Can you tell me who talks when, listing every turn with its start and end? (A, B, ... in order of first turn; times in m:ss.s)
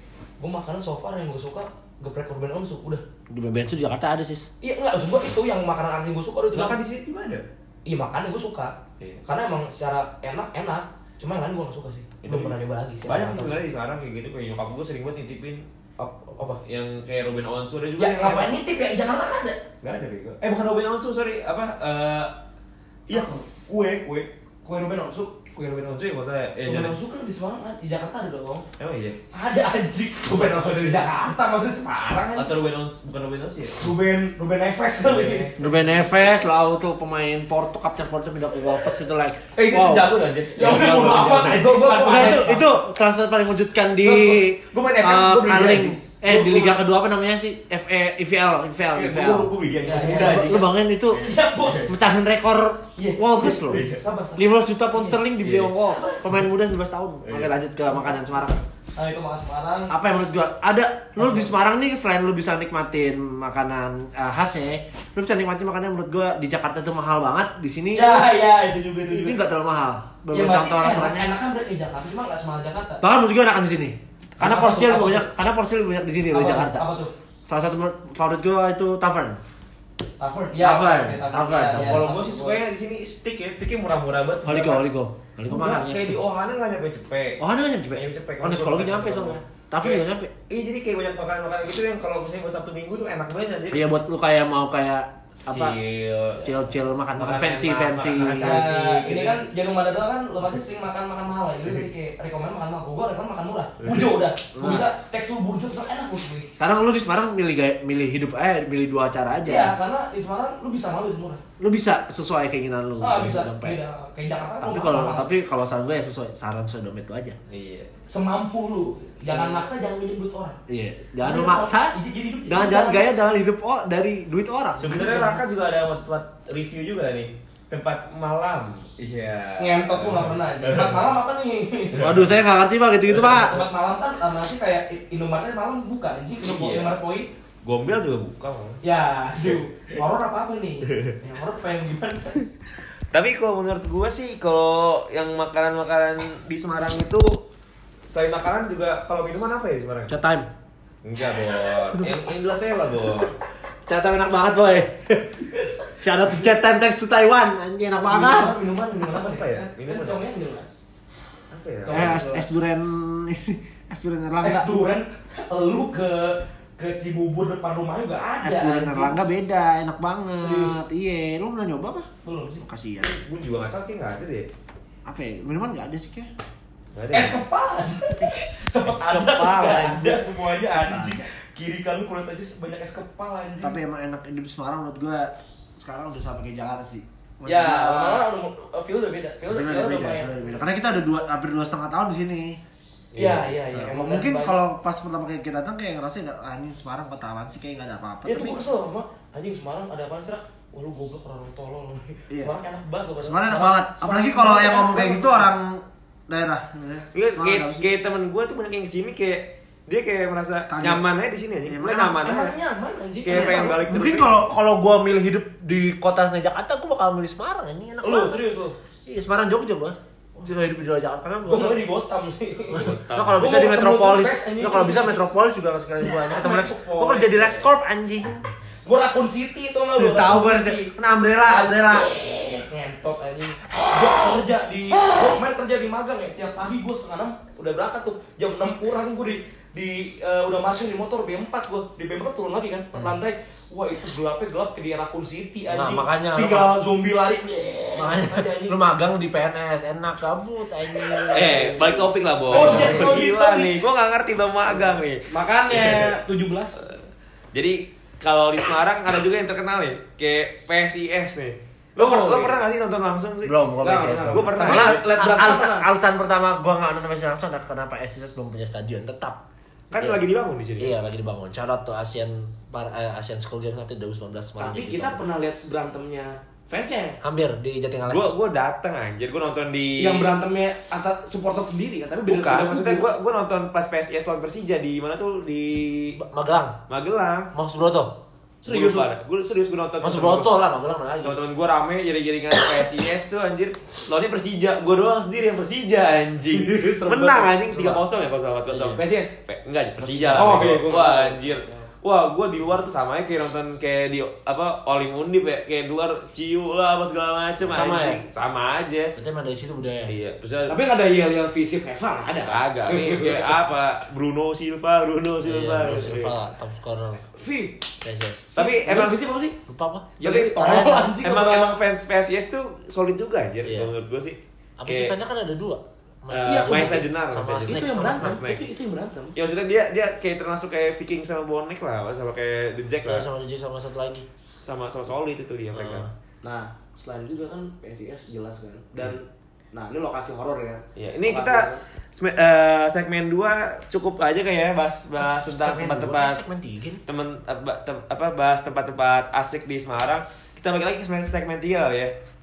0:00.4-0:03.0 A
0:03.3-0:04.5 B
0:04.6-0:06.8 A
0:06.5-0:07.4 C
0:07.8-0:13.6 A
0:12.2-0:15.6 C
0:16.0-0:16.6 A
0:16.2-0:18.5 C
0:18.0-0:20.4 A
0:20.4-0:22.3 C
0:23.1-0:24.3 C
0:23.1-0:23.4 A
0:24.6-0:26.0 A
0:25.8-0:26.9 C
0:26.6-0:28.6 A
0:28.8-0:29.2 C
0:29.3-0:32.5 A
0:30.3-0:31.0 C
0:32.4-0:33.8 C
0:33.8-0:35.5 A
0:35.0-0:36.2 C
0:35.6-0:49.5 B
0:39.6-0:42.6 C
0:40.6-0:42.6 A
0:44.0-0:46.0 C
0:46.2-0:46.8 A
0:49.0-0:50.7 C
0:49.2-0:52.0 A
0:50.0-0:51.2 B
0:51.2-0:51.8 C
0:51.8-0:53.8 B
0:53.0-0:55.2 A
0:53.7-0:54.0 C
0:54.4-0:58.6 B
0:55.4-0:55.8 C
0:55.8-0:56.3 A
0:57.2-0:57.5 C
0:59.0-0:59.9 A
0:59.9-1:08.3 B
1:01.2-1:01.5 A
1:07.9-1:09.3 C
1:08.0-1:09.0 A
1:09.1-1:11.3 B
1:10.3-1:13.0 A
1:13.0-1:16.8 B
1:14.4-1:15.3 A
1:16.3-1:17.1 A
1:17.4-1:19.4 B
1:20.2-1:22.6 A
1:20.6-1:22.0 B
1:21.6-1:24.8 C
1:24.4-1:26.2 B
1:25.5-1:27.4 C
1:27.4-1:30.3 B
1:27.9-1:33.8 C
1:33.7-1:35.8 B
1:35.5-1:36.6 C
1:36.4-1:38.6 B
1:37.2-1:39.4 C
1:38.4-1:46.5 A
1:43.8-1:44.1 C
1:44.6-1:44.9 B
1:46.6-1:49.7 B
1:49.4-1:51.4 A
1:51.6-1:53.8 B
1:53.0-1:55.3 A
1:54.6-1:57.4 B
1:57.5-1:57.9 C
1:58.1-2:00.6 A
1:59.2-1:59.6 B
2:00.7-2:02.0 B
2:01.2-2:03.2 A
2:02.5-2:05.2 B
2:04.8-2:11.1 C
2:04.8-2:05.4 A
2:09.6-2:12.1 A
2:11.9-2:12.3 C
2:12.0-2:13.6 B
2:13.1-2:17.3 A
2:16.4-2:17.0 C
2:17.6-2:18.8 C
2:18.8-2:22.4 A
2:19.4-2:20.0 C
2:20.9-2:21.2 C
2:23.1-2:27.4 C
2:28.1-2:30.1 C
2:30.1-2:30.5 B
2:31.0-2:33.3 C
2:33.9-2:38.6 B
2:38.0-2:40.8 A
2:39.1-2:40.2 C
2:41.5-2:42.2 C
2:41.8-2:42.6 A
2:41.9-2:44.7 B
2:44.4-2:49.2 A
2:48.4-2:52.1 B
2:50.4-2:50.8 A
2:52.2-2:52.6 A
2:52.6-2:53.2 B
2:53.0-2:54.5 C
2:55.0-2:56.3 B
2:56.9-2:57.4 C
2:57.1-3:03.8 A
2:58.8-3:00.2 C
3:00.7-3:01.2 B
3:03.6-3:08.2 B
3:07.4-3:10.6 A
3:09.5-3:12.6 B
3:13.1-3:13.5 C
3:13.1-3:14.6 A
3:13.7-3:18.6 B
3:18.2-3:25.4 A
3:23.2-3:27.9 B
3:27.1-3:32.6 C
3:30.7-3:31.0 B
3:31.7-3:32.2 B
3:32.0-3:33.8 A
3:33.2-3:34.4 C
3:33.3-3:38.4 B
3:38.0-3:38.8 A
3:39.1-3:41.8 B
3:41.5-3:45.3 A
3:42.6-3:43.5 C
3:42.7-3:48.4 B
3:46.0-3:47.6 A
3:48.8-3:50.9 A
3:50.0-3:52.1 B
3:51.4-4:08.8 A
4:05.7-4:06.8 B
4:08.0-4:13.1 B
4:11.1-4:11.8 A
4:11.3-4:16.2 C
4:12.5-4:13.8 A
4:15.3-4:16.8 A
4:17.5-4:23.5 C
4:22.0-4:22.6 A
4:23.4-4:29.4 B
4:23.8-4:25.9 A
4:24.1-4:25.0 C
4:29.9-4:30.9 C
4:30.0-4:30.2 B
4:30.8-4:35.2 B
4:34.6-4:37.2 A
4:37.2-4:38.3 B
4:38.1-4:40.3 C
4:40.0-4:43.1 A
4:42.3-4:46.2 C
4:46.2-4:46.8 B
4:46.9-4:47.5 C
4:47.5-4:48.1 B
4:48.6-4:49.1 A
4:48.7-4:50.5 C
4:50.0-4:51.4 B
4:51.2-5:09.1 C
4:56.6-4:58.0 A
4:58.7-4:59.3 A
5:00.0-5:00.8 B
5:00.3-5:01.7 A
5:07.7-5:08.2 B
5:09.2-5:10.2 B
5:10.1-5:10.8 C
5:10.7-5:13.6 A
5:12.4-5:16.3 C
5:15.4-5:17.3 B
5:17.2-5:17.8 A
5:18.0-5:18.5 B
5:18.5-5:19.6 A
5:18.6-5:19.2 C
5:19.7-5:21.1 B
5:20.2-5:21.7 A
5:20.2-5:25.1 C
5:23.6-5:23.9 B
5:24.8-5:28.4 B
5:26.3-5:28.7 C
5:26.4-5:27.1 A
5:27.6-5:29.4 A
5:29.4-5:33.3 C
5:33.0-5:34.2 B
5:34.6-5:36.1 C
5:35.8-5:36.1 B
5:36.4-5:41.8 A
5:41.0-5:46.4 C
5:45.2-5:47.0 B
5:47.1-5:52.1 C